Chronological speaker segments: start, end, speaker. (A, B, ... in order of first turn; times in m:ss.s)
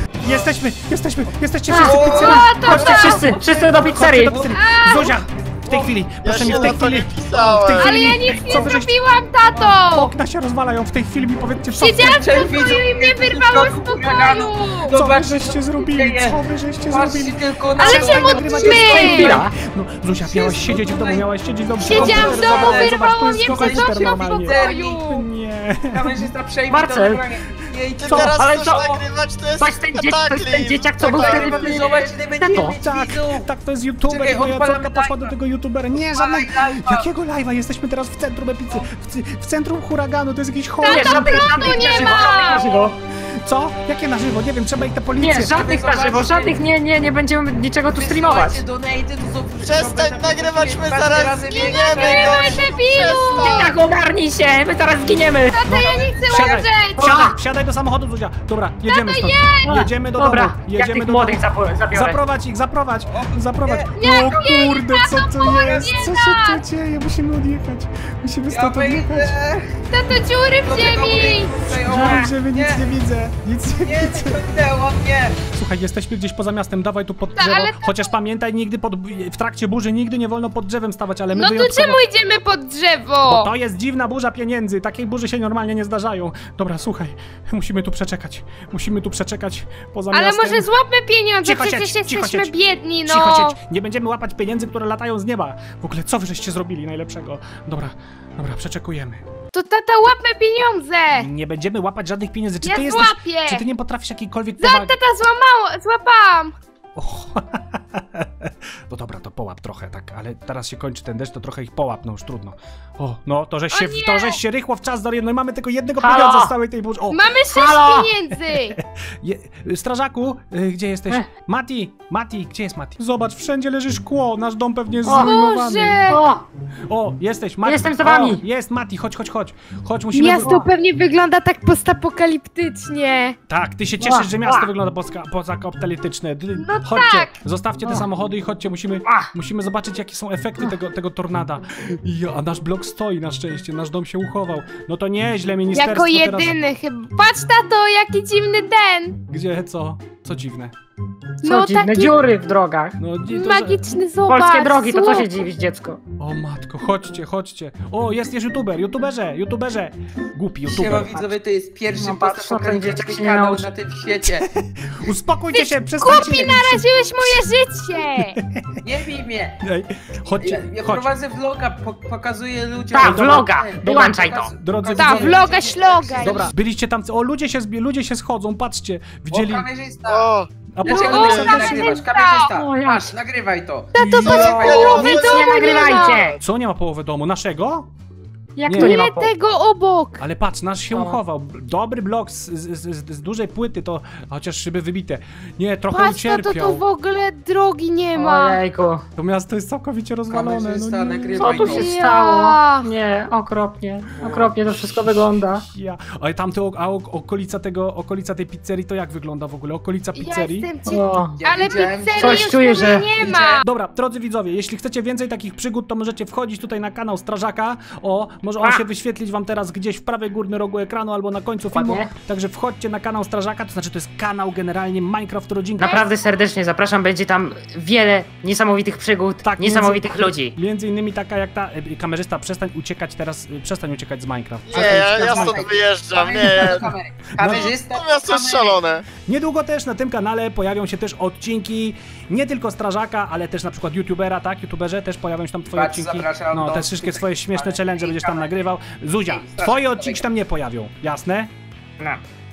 0:00.2-0:08.9 A
0:01.7-0:04.4 B
0:01.8-0:04.6 C
0:02.1-0:03.3 D
0:04.5-0:05.2 D
0:05.6-0:06.0 C
0:06.2-0:08.6 E
0:07.8-0:10.1 D
0:09.6-0:12.7 A
0:11.8-0:14.9 D
0:12.0-0:19.2 C
0:14.9-0:26.0 A
0:17.8-0:19.4 D
0:18.6-0:19.5 B
0:20.2-0:25.0 C
0:21.8-0:25.2 D
0:25.9-0:29.0 C
0:26.7-0:27.2 B
0:28.0-0:31.8 E
0:28.1-0:28.4 A
0:28.3-0:29.0 B
0:29.6-0:32.7 B
0:31.0-0:33.5 C
0:32.8-0:45.6 A
0:34.0-0:35.3 C
0:35.9-0:37.1 C
0:40.8-0:42.7 D
0:40.8-0:42.9 B
0:45.2-0:48.6 B
0:45.5-0:46.6 C
0:47.9-0:52.6 C
0:49.6-0:53.8 E
0:51.4-0:53.7 D
0:53.4-0:55.6 B
0:55.5-0:57.1 D
0:55.6-1:09.3 A
0:55.7-0:56.6 C
0:57.0-0:57.3 B
0:58.9-0:59.8 D
0:59.6-1:02.2 B
1:03.1-1:04.8 C
1:04.0-1:06.6 D
1:08.5-1:09.8 C
1:09.9-1:11.5 D
1:10.6-1:12.8 C
1:11.8-1:14.4 A
1:11.9-1:12.2 B
1:13.8-1:15.4 C
1:15.5-1:22.0 A
1:17.4-1:18.1 D
1:21.3-1:23.5 D
1:23.2-1:30.7 A
1:30.1-1:33.6 D
1:31.4-1:32.5 A
1:33.0-1:39.2 A
1:39.5-1:41.3 D
1:41.2-1:44.9 A
1:42.6-1:43.6 D
1:44.6-1:46.5 D
1:47.0-1:57.2 A
1:53.7-1:54.4 D
1:56.0-1:56.5 B
1:57.1-1:58.8 D
1:57.5-1:58.1 B
1:58.3-2:06.0 A
2:05.0-2:05.3 B
2:05.2-2:06.2 D
2:06.1-2:06.4 B
2:06.9-2:10.6 A
2:07.6-2:08.4 B
2:10.1-2:13.4 D
2:10.4-2:10.7 B
2:13.5-2:26.5 A
2:14.0-2:14.7 B
2:16.6-2:17.4 D
2:25.7-2:29.2 D
2:29.3-2:30.7 A
2:31.4-2:32.2 D
2:31.4-2:33.0 B
2:33.0-2:33.8 A
2:33.3-2:35.4 D
2:34.3-2:36.0 B
2:36.2-2:41.3 A
2:40.6-2:44.5 C
2:41.9-2:43.7 B
2:44.2-2:47.4 A
2:45.5-2:48.4 D
2:46.0-2:46.6 C
2:48.0-2:48.6 A
2:48.8-2:49.6 C
2:49.6-2:51.1 A
2:50.4-2:56.5 C
2:52.9-2:54.5 B
2:53.0-2:55.5 A
2:55.0-2:56.5 D
2:56.2-2:59.6 A
2:59.3-3:00.3 C
3:00.0-3:00.5 E
3:00.7-3:01.9 A
3:00.8-3:01.2 B
3:00.8-3:05.2 C
3:01.0-3:02.5 D
3:01.2-3:01.6 E
3:01.8-3:03.1 B
3:03.9-3:06.4 D
3:04.0-3:04.8 A
3:04.3-3:06.0 E
3:04.9-3:06.4 B
3:06.4-3:07.9 A
3:08.6-3:10.2 D
3:08.6-3:09.0 A
3:08.7-3:09.3 B
3:10.2-3:16.8 A
3:10.9-3:11.2 B
3:15.9-3:18.6 D
3:18.1-3:19.0 B
3:19.2-3:21.7 A
3:20.3-3:21.9 C
3:21.4-3:25.6 B
3:21.7-3:22.8 D
3:24.2-3:30.7 A
3:30.1-3:33.6 D
3:30.9-3:31.4 B
3:31.4-3:33.5 C
3:32.2-3:33.1 B
3:33.2-3:46.0 A
3:41.7-3:42.1 B
3:45.8-3:50.6 B
3:49.4-3:55.7 A
3:54.6-3:56.9 E
3:54.7-3:58.8 C
3:56.4-3:57.7 A
3:57.5-3:59.0 E
3:59.2-4:11.5 A
4:05.7-4:08.6 C
4:09.2-4:10.2 C